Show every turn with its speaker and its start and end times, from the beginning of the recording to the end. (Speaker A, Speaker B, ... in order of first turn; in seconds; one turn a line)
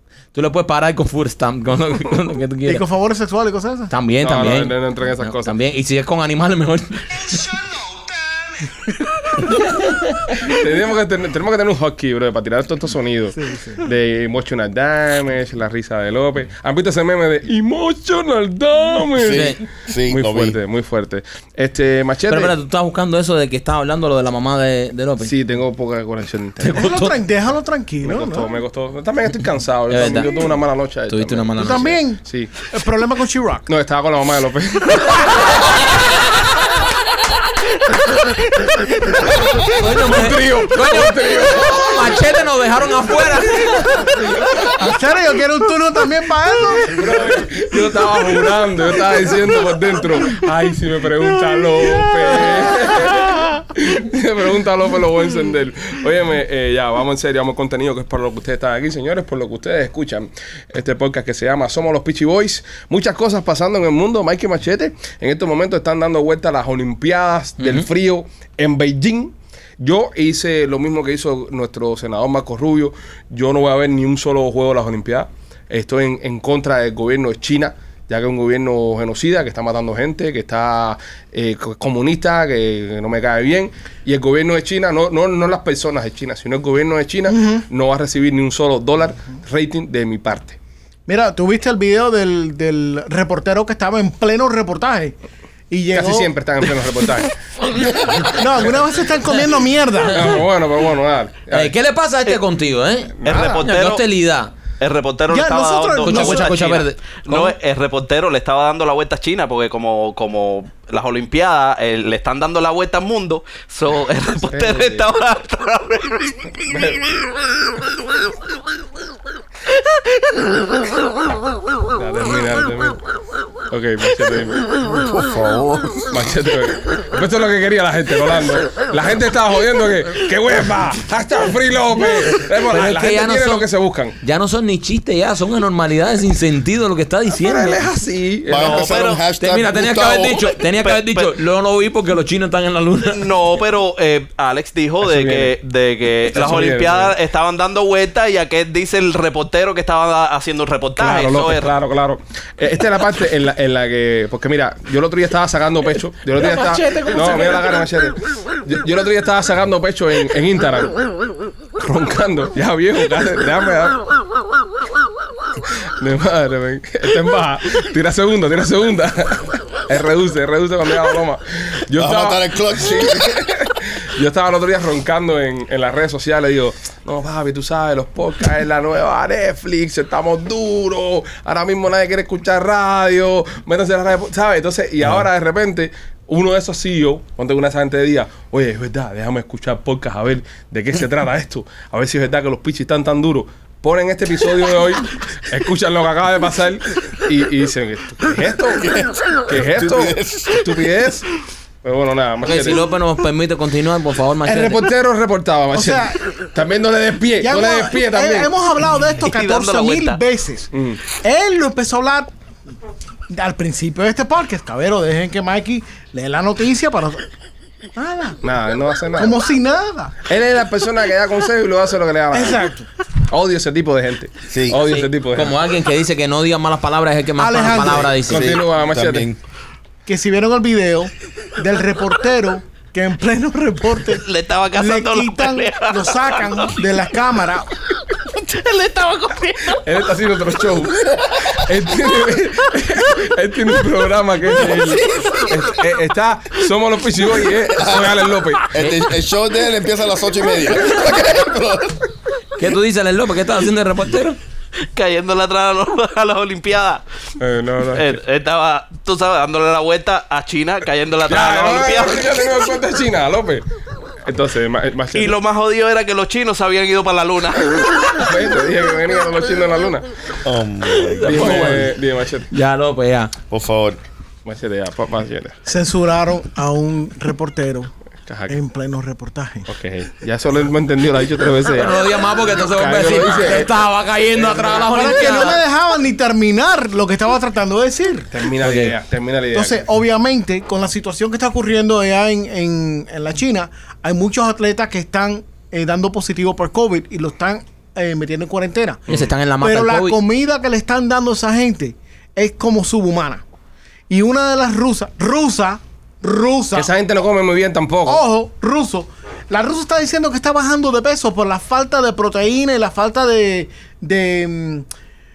Speaker A: 0.3-2.8
Speaker B: 2.6-3.9
Speaker A: 3.9-7.6
Speaker C: 4.2-5.5
Speaker A: 9.7-10.1
Speaker C: 10.4-22.5
Speaker B: 13.4-13.8
Speaker A: 19.2-19.6
Speaker D: 19.3-20.6
Speaker A: 22.3-25.3
Speaker C: 25.2-26.8
Speaker A: 26.6-27.2
Speaker B: 26.7-28.5
Speaker C: 28.0-32.5
Speaker A: 29.9-30.3
Speaker A: 31.1-32.0
Speaker B: 31.6-33.7
Speaker C: 33.7-35.6
Speaker A: 39.6-44.1
Speaker C: 40.1-42.0
Speaker B: 44.6-47.0
Speaker C: 46.9-90.6
Speaker A: 67.6-67.9
Speaker B: 87.3-87.6
Speaker B: 91.1-95.1
Speaker B: 95.7-96.3
Speaker C: 95.9-97.3
Speaker D: 97.7-98.2
Speaker B: 98.2-100.4
Speaker A: 100.0-100.4
Speaker C: 100.1-101.7
Speaker A: 101.5-104.5
Speaker E: 103.2-104.0
Speaker C: 103.2-103.6
Speaker B: 103.3-103.6
Speaker E: 104.8-116.7
Speaker B: 105.3-106.7
Speaker A: 106.0-107.5
Speaker C: 114.5-115.0
Speaker C: 116.6-117.0
Speaker C: 122.0-123.0
Speaker C: 123.7-124.7
Speaker D: 124.8-126.2
Speaker C: 126.1-134.2
Speaker A: 132.7-133.7
Speaker A: 134.2-137.8
Speaker C: 137.3-139.0
Speaker D: 138.5-140.6
Speaker E: 138.6-139.2
Speaker A: 139.4-143.3
Speaker E: 140.8-141.3
Speaker E: 143.1-151.7
Speaker C: 145.0-145.5
Speaker C: 146.3-147.1
Speaker C: 151.0-160.9
Speaker A: 156.3-157.7
Speaker C: 161.8-164.0
Speaker C: 166.0-198.9
Speaker D: 171.9-173.5
Speaker D: 198.7-200.9
Speaker C: 199.5-201.3
Speaker C: 201.8-202.9
Speaker A: 202.4-204.8
Speaker C: 204.4-208.5
Speaker B: 205.7-206.2
Speaker B: 207.4-212.3
Speaker E: 209.2-210.2
Speaker C: 210.7-211.0
Speaker B: 213.3-217.2
Speaker B: 217.9-218.4
Speaker C: 218.4-219.4
Speaker B: 219.2-220.1
Speaker C: 220.3-222.7
Speaker B: 222.3-222.9
Speaker C: 223.3-225.6
Speaker D: 224.5-224.8
Speaker A: 224.7-228.6
Speaker B: 227.4-228.3
Speaker C: 228.2-229.3
Speaker D: 228.4-229.4
Speaker B: 230.1-237.7
Speaker E: 234.2-236.6
Speaker E: 238.1-239.8
Speaker C: 239.7-248.7
Speaker D: 241.0-241.5
Speaker D: 244.6-245.5
Speaker D: 247.8-248.2
Speaker D: 248.7-252.1
Speaker A: 252.6-254.4
Speaker E: 254.8-257.0
Speaker C: 257.4-258.2
Speaker E: 257.9-262.4
Speaker C: 261.2-263.6
Speaker C: 264.2-265.4
Speaker E: 265.1-268.1
Speaker C: 268.1-270.1
Speaker D: 270.4-271.6
Speaker A: 271.1-271.9
Speaker C: 271.2-272.5
Speaker A: 272.5-273.3
Speaker D: 273.5-274.0
Speaker C: 274.4-275.6
Speaker B: 275.7-277.9
Speaker C: 278.3-278.6
Speaker B: 278.5-279.7
Speaker C: 279.7-283.7
Speaker A: 281.7-285.6
Speaker C: 284.4-285.5
Speaker B: 284.7-288.3
Speaker C: 288.3-289.8
Speaker A: 288.6-288.9
Speaker B: 289.5-299.0
Speaker A: 299.1-300.2
Speaker B: 299.6-303.4
Speaker B: 304.1-306.9
Speaker C: 306.7-308.2
Speaker B: 308.1-314.9